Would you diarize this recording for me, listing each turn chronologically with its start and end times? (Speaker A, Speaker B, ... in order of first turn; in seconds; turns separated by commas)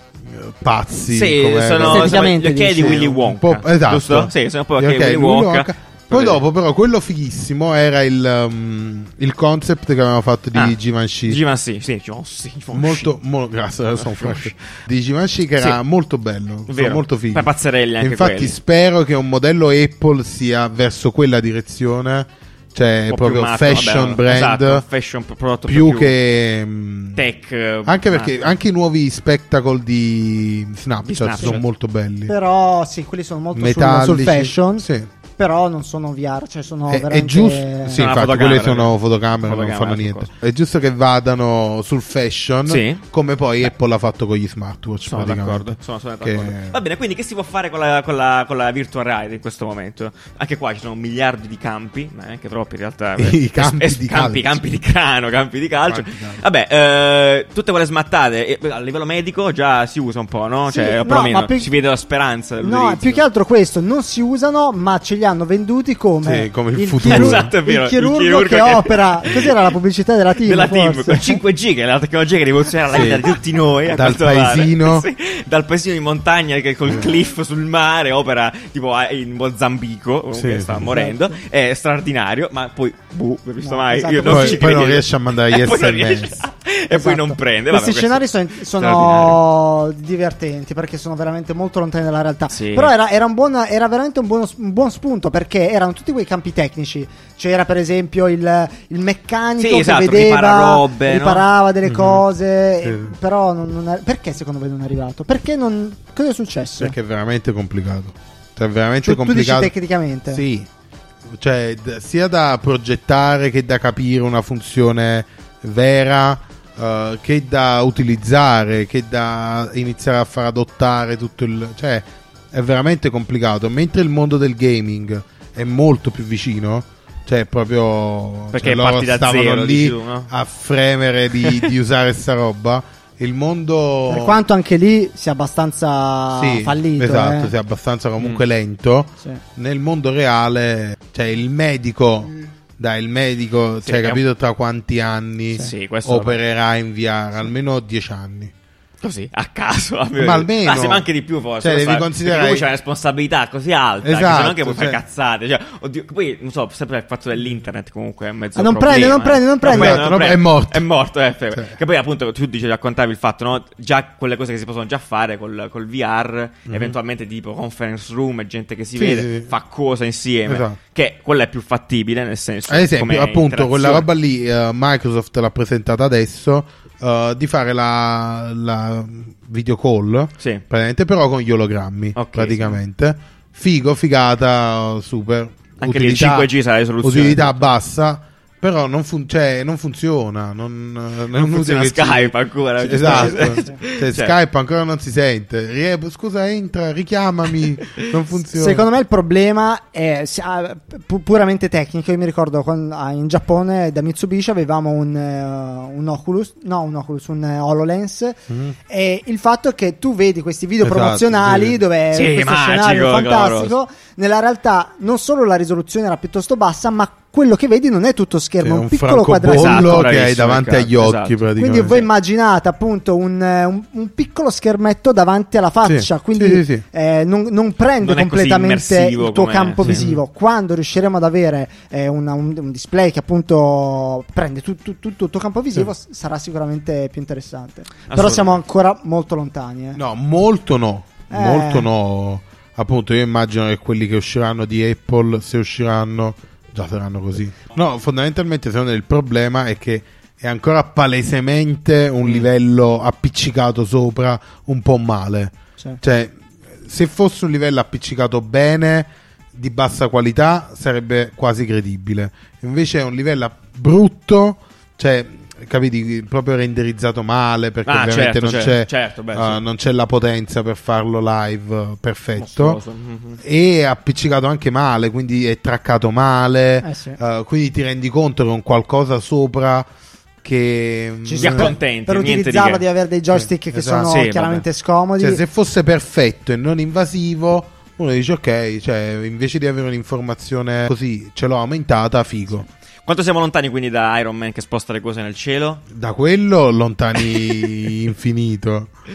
Speaker A: 0.3-11.4, Speaker B: 1.1-6.4, Speaker C: 1.8-3.2, Speaker B: 10.5-13.1, Speaker A: 12.7-24.8, Speaker B: 14.0-14.6, Speaker B: 16.7-18.6, Speaker B: 23.1-26.2, Speaker A: 25.7-27.2, Speaker B: 27.2-28.4, Speaker A: 27.9-32.3, Speaker B: 31.1-31.6, Speaker C: 32.3-38.0, Speaker A: 33.5-35.1, Speaker A: 36.9-46.8, Speaker B: 37.9-40.3, Speaker B: 42.7-43.0, Speaker B: 45.1-63.2, Speaker A: 53.2-54.6, Speaker A: 55.9-56.4, Speaker C: 60.7-61.7, Speaker C: 62.6-71.4, Speaker A: 66.2-67.5, Speaker B: 67.0-69.7, Speaker B: 70.4-89.4, Speaker A: 72.9-73.3, Speaker A: 73.9-75.1, Speaker A: 80.3-80.9, Speaker C: 80.8-81.4, Speaker C: 83.6-84.8, Speaker A: 84.3-86.4, Speaker C: 86.9-107.0, Speaker B: 92.5-92.9, Speaker B: 99.6-101.5, Speaker A: 101.8-102.2, Speaker A: 102.8-103.2, Speaker A: 106.8-109.7, Speaker C: 109.0-110.4, Speaker A: 110.3-110.7, Speaker A: 111.3-134.4, Speaker B: 128.5-130.3, Speaker B: 131.4-131.7, Speaker C: 134.1-137.5, Speaker A: 136.3-148.5, Speaker B: 143.8-144.2, Speaker B: 145.6-146.4, Speaker B: 149.0-174.1, Speaker A: 150.2-151.1, Speaker A: 151.6-152.7, Speaker A: 154.0-155.0, Speaker C: 158.6-160.1, Speaker A: 159.6-160.8, Speaker A: 161.5-161.8, Speaker A: 169.0-169.5, Speaker A: 170.5-170.8, Speaker A: 172.7-198.9, Speaker B: 182.2-182.8, Speaker B: 185.8-187.7, Speaker B: 191.3-194.3, Speaker C: 192.9-193.8, Speaker C: 198.5-220.1, Speaker A: 208.5-208.8, Speaker A: 210.8-211.8, Speaker B: 212.1-213.7, Speaker A: 218.6-221.9, Speaker B: 219.5-222.1, Speaker C: 221.6-240.0, Speaker A: 225.8-226.8, Speaker B: 228.0-230.0, Speaker A: 229.8-230.2, Speaker B: 238.1-238.6, Speaker A: 240.0-272.8, Speaker C: 241.3-241.9, Speaker B: 267.9-269.6, Speaker B: 272.4-273.4, Speaker A: 273.4-279.9, Speaker C: 276.8-277.2, Speaker A: 280.4-281.7, Speaker C: 281.2-285.4, Speaker B: 281.4-282.8, Speaker A: 283.3-284.1, Speaker B: 284.1-284.6, Speaker A: 285.2-292.7, Speaker B: 293.1-295.8, Speaker A: 295.9-298.9, Speaker B: 297.2-297.9